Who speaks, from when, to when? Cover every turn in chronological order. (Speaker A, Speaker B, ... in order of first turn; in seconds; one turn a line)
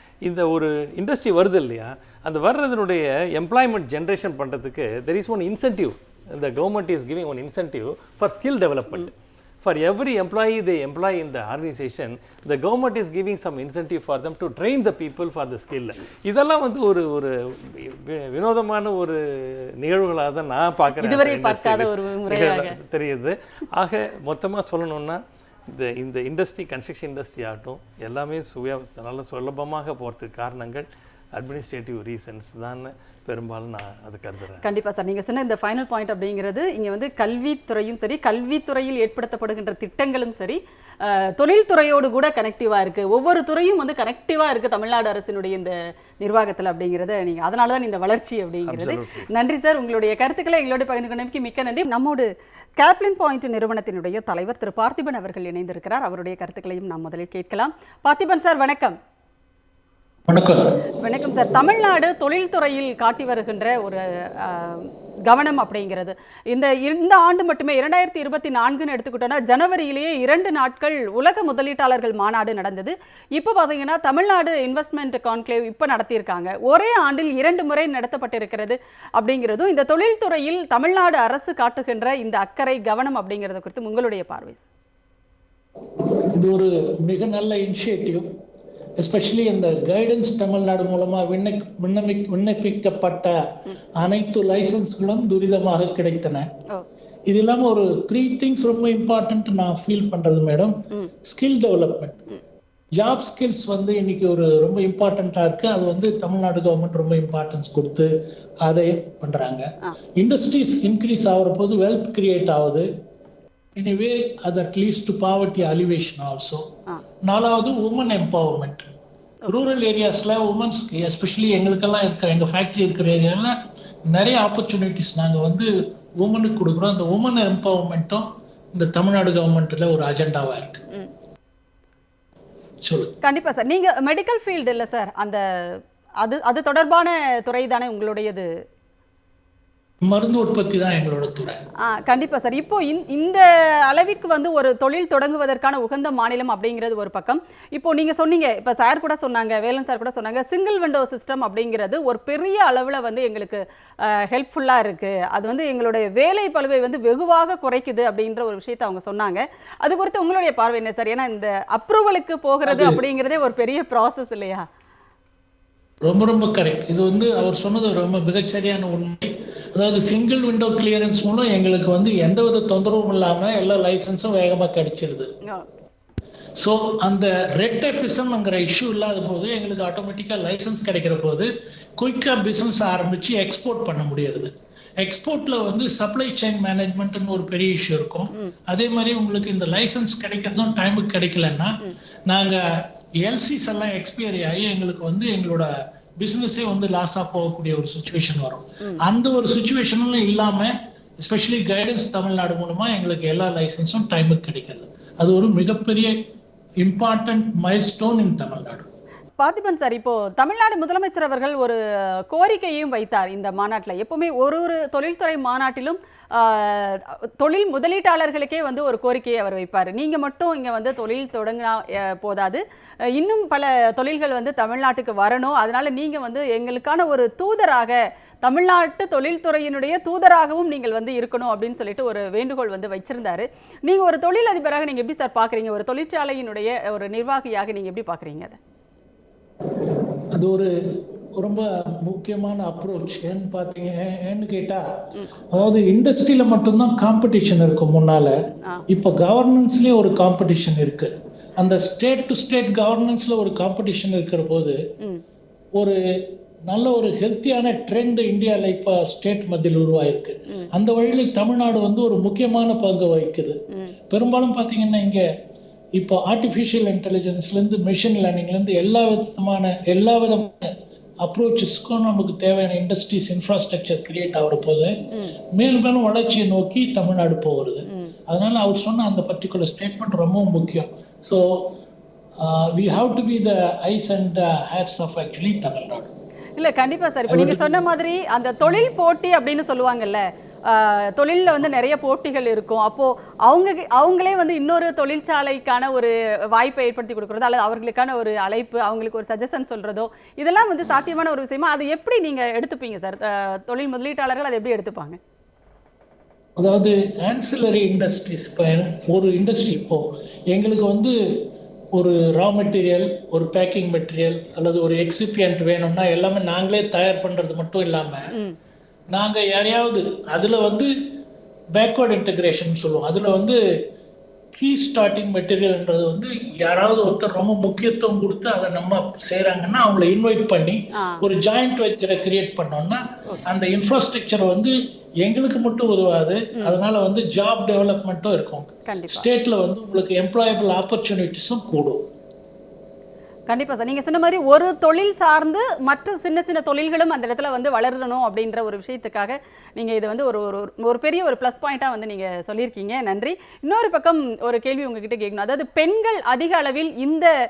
Speaker A: 0.2-34.6
Speaker B: 21.0-22.8
Speaker B: 34.6-52.3
Speaker A: 48.6-49.3
Speaker B: 52.8-59.0
Speaker C: 60.3-60.8
Speaker B: 61.0-84.7
Speaker C: 86.0-88.3
Speaker C: 89.0-93.4
Speaker C: 94.0-96.5
Speaker C: 97.3-102.2
Speaker C: 103.0-108.1
Speaker C: 108.6-112.9
Speaker C: 113.8-116.7
Speaker C: 117.2-118.8
Speaker C: 119.5-123.5
Speaker C: 124.1-130.8
Speaker C: 132.8-133.1
Speaker B: 133.2-138.5
Speaker C: 140.1-141.6
Speaker B: 141.8-164.6
Speaker C: 162.7-163.0
Speaker C: 166.0-175.3
Speaker B: 175.4-175.8
Speaker C: 176.6-206.2
Speaker C: 206.8-208.9
Speaker B: 209.4-211.8
Speaker B: 212.3-222.6
Speaker B: 223.1-238.6
Speaker C: 240.3-248.3
Speaker C: 248.9-254.8
Speaker C: 255.8-263.6
Speaker C: 264.1-265.3
Speaker C: 265.9-275.0
Speaker B: 275.1-275.4
Speaker C: 275.5-281.8
Speaker B: 277.9-278.1
Speaker C: 282.4-286.1
Speaker B: 286.6-305.2
Speaker C: 287.3-287.8
Speaker C: 306.6-318.3
Speaker C: 319.1-320.9
Speaker C: 321.7-323.6
Speaker C: 324.6-342.1
Speaker B: 330.9-331.2
Speaker B: 338.9-339.3
Speaker B: 343.5-357.3